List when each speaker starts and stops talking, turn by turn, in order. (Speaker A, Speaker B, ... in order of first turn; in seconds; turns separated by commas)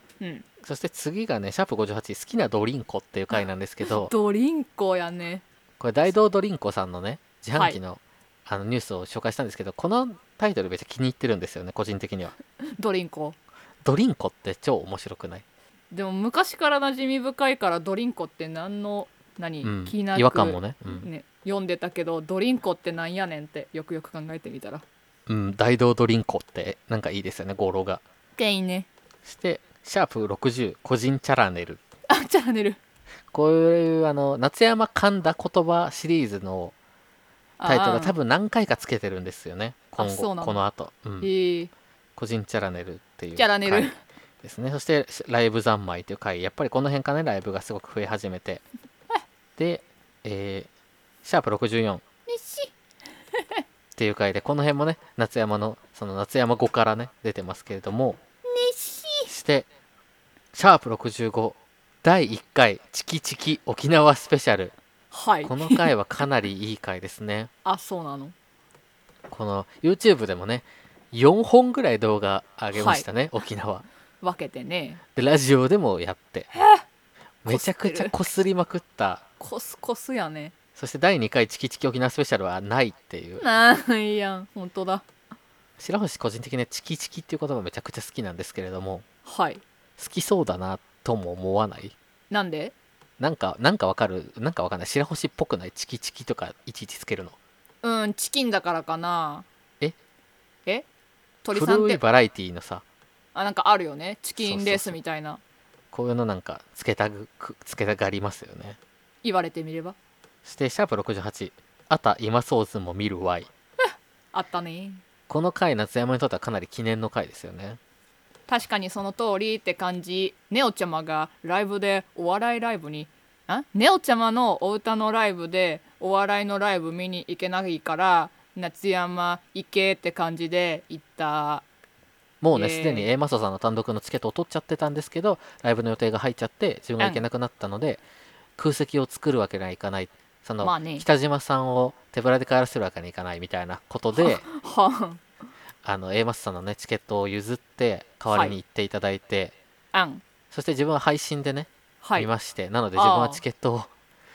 Speaker A: 0.2-0.5, Speaker B: 0.6-4.1, Speaker A: 3.9-5.4, Speaker B: 5.8-12.4, Speaker A: 12.8-13.4, Speaker B: 13.8-15.4, Speaker A: 15.9-24.8, Speaker B: 19.6-21.1, Speaker B: 25.3-28.0, Speaker A: 28.4-28.9, Speaker B: 29.2-31.8, Speaker A: 32.1-32.8, Speaker B: 33.3-36.8, Speaker A: 37.6-38.2, Speaker B: 37.6-41.3, Speaker A: 40.0-40.6, Speaker A: 41.2-41.7, Speaker B: 42.2-48.6, Speaker A: 43.4-44.0, Speaker B: 49.6-50.7, Speaker B: 51.2-52.0, Speaker A: 52.3-52.7, Speaker A: 53.4-53.6, Speaker B: 54.0-58.2, Speaker A: 58.5-59.3, Speaker B: 59.3-59.7, Speaker B: 60.5-64.7, Speaker A: 65.1-65.9, Speaker B: 65.5-67.5, Speaker A: 67.7-68.3, Speaker B: 69.3-73.8, Speaker A: 72.7-73.1, Speaker A: 74.2-75.0, Speaker B: 75.2-76.5, Speaker A: 76.5-76.8, Speaker B: 77.4-79.2, Speaker A: 77.5-78.2, Speaker A: 79.4-80.5, Speaker B: 80.8-83.4, Speaker A: 83.4-85.0, Speaker B: 85.8-89.0, Speaker A: 89.3-89.6, Speaker B: 90.0-92.0, Speaker A: 92.3-92.7, Speaker B: 93.2-97.4, Speaker A: 97.8-99.5, Speaker A: 101.4-102.0, Speaker B: 101.5-102.8, Speaker A: 103.3-105.4, Speaker B: 104.4-105.0, Speaker B: 105.9-108.8, Speaker A: 109.2-110.0, Speaker B: 110.5-113.5, Speaker A: 114.3-115.0, Speaker B: 115.3-117.8, Speaker A: 118.5-131.7, Speaker B: 132.4-138.0, Speaker A: 132.5-133.1, Speaker B: 138.6-144.5, Speaker A: 140.6-141.1, Speaker A: 144.2-145.2, Speaker B: 145.8-149.6, Speaker A: 148.3-148.6, Speaker A: 149.9-150.2, Speaker B: 150.5-153.9, Speaker A: 152.0-152.3, Speaker A: 152.9-153.4